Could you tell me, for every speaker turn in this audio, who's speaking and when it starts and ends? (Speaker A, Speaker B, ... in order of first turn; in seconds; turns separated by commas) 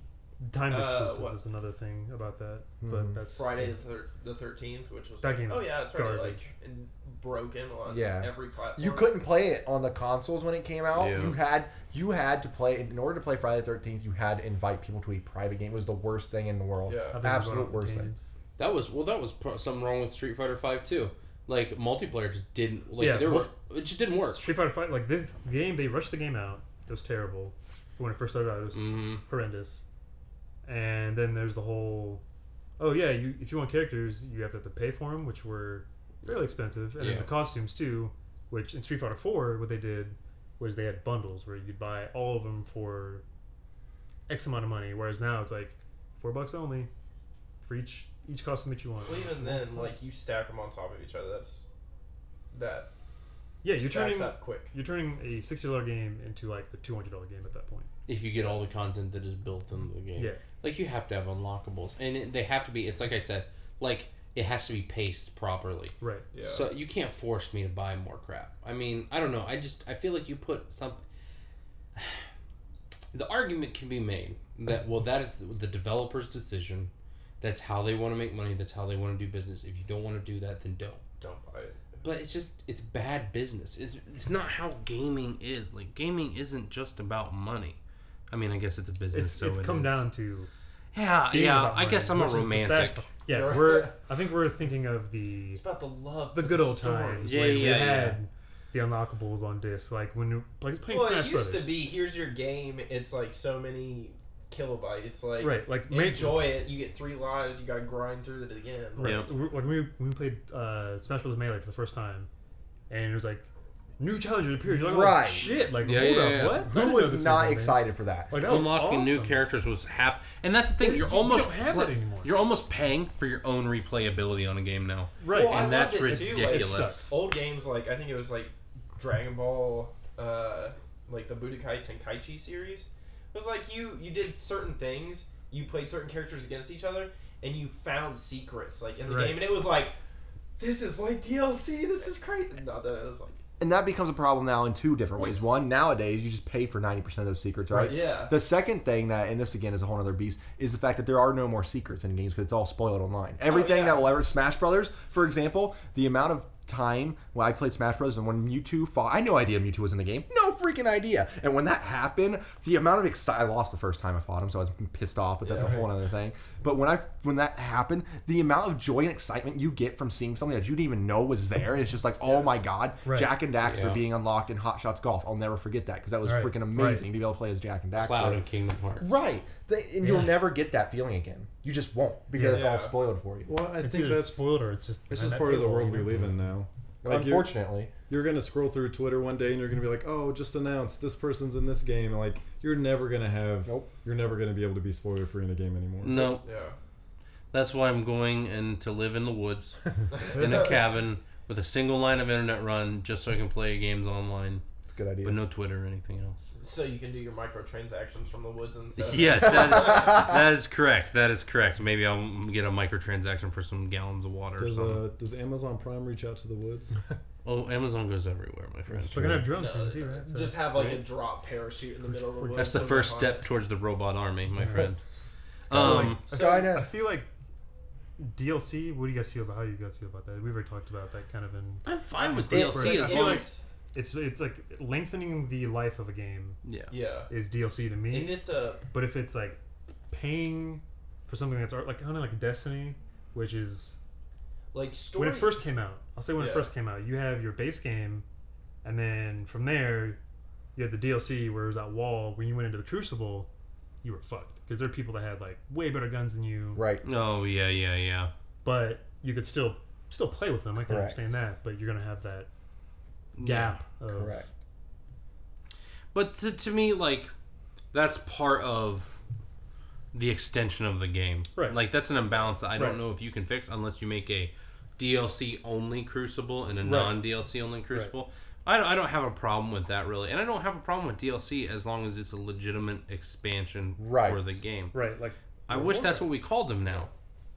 Speaker A: 0.4-3.7, Speaker B: 0.7-1.4, Speaker C: 2.8-3.2, Speaker B: 3.3-9.1, Speaker A: 5.2-6.5, Speaker C: 7.9-18.1, Speaker D: 10.9-11.3, Speaker B: 16.8-17.2, Speaker A: 17.1-18.3, Speaker D: 18.6-24.5, Speaker A: 23.0-23.5, Speaker A: 24.3-29.8, Speaker D: 28.7-29.2, Speaker A: 30.6-32.2, Speaker A: 32.8-43.2, Speaker D: 37.0-37.3, Speaker A: 44.3-46.9, Speaker A: 47.6-50.0, Speaker B: 49.0-51.7, Speaker B: 52.5-52.9, Speaker A: 53.6-57.9, Speaker B: 53.7-54.7, Speaker D: 58.0-71.0, Speaker B: 58.3-58.6, Speaker A: 66.0-66.2, Speaker B: 66.3-66.7, Speaker D: 71.9-72.2, Speaker D: 73.1-81.0, Speaker B: 81.2-82.0, Speaker D: 82.0-87.8, Speaker D: 88.3-90.0, Speaker A: 89.1-90.5, Speaker D: 90.9-93.0, Speaker A: 91.3-95.6, Speaker B: 93.3-94.0, Speaker B: 95.5-98.0, Speaker A: 96.3-101.7, Speaker D: 97.2-98.2, Speaker B: 100.9-109.2, Speaker A: 105.4-106.5, Speaker A: 109.0-112.3, Speaker D: 109.0-109.3, Speaker A: 112.9-119.4, Speaker C: 114.7-115.5, Speaker D: 115.8-116.7, Speaker C: 116.6-118.4, Speaker D: 118.3-127.1, Speaker A: 120.8-122.3, Speaker A: 125.2-127.1, Speaker B: 125.3-139.9, Speaker A: 139.1-139.5, Speaker B: 140.6-143.4, Speaker C: 143.6-178.4, Speaker B: 147.8-148.3, Speaker B: 153.4-154.1, Speaker B: 165.4-165.8, Speaker A: 165.6-165.8, Speaker B: 172.2-172.6, Speaker A: 173.0-173.3, Speaker D: 173.6-174.0, Speaker A: 176.2-177.0, Speaker D: 178.0-179.1, Speaker C: 179.0-183.5, Speaker A: 180.0-180.4, Speaker A: 182.3-182.8, Speaker B: 182.5-182.9, Speaker E: 183.4-184.4, Speaker A: 183.8-186.2, Speaker E: 185.1-196.3, Speaker C: 187.0-187.9, Speaker D: 196.0-196.5, Speaker B: 196.1-196.8, Speaker D: 197.5-204.6, Speaker B: 200.1-200.8, Speaker C: 204.9-205.4, Speaker D: 205.2-206.5, Speaker B: 206.6-210.2, Speaker D: 208.9-215.0, Speaker E: 214.6-217.0, Speaker D: 217.4-219.4, Speaker A: 219.1-220.6, Speaker B: 219.5-223.4, Speaker D: 220.7-221.0, Speaker A: 222.3-222.7, Speaker D: 222.5-225.0, Speaker A: 224.6-224.9, Speaker D: 225.7-226.2, Speaker C: 225.7-226.9, Speaker A: 225.7-227.3, Speaker B: 226.3-226.7, Speaker A: 228.2-236.6, Speaker D: 231.8-233.5, Speaker B: 232.5-233.6, Speaker D: 236.6-236.9, Speaker B: 236.9-237.3, Speaker A: 237.3-239.6, Speaker B: 238.1-238.8, Speaker A: 240.1-244.0, Speaker B: 244.7-245.6, Speaker A: 245.1-248.2, Speaker B: 246.4-246.7, Speaker A: 248.8-250.2, Speaker A: 250.8-253.5, Speaker A: 254.0-256.8, Speaker C: 256.7-257.0, Speaker D: 257.0-258.3, Speaker A: 258.6-262.5, Speaker C: 260.9-261.3, Speaker D: 263.3-263.8, Speaker A: 263.4-264.4, Speaker C: 264.1-264.5, Speaker D: 266.1-267.3, Speaker D: 267.9-269.2, Speaker D: 270.1-284.9, Speaker A: 272.7-273.0, Speaker A: 276.8-277.2, Speaker C: 284.0-284.4, Speaker A: 284.9-286.2, Speaker D: 285.7-287.1, Speaker C: 285.7-286.2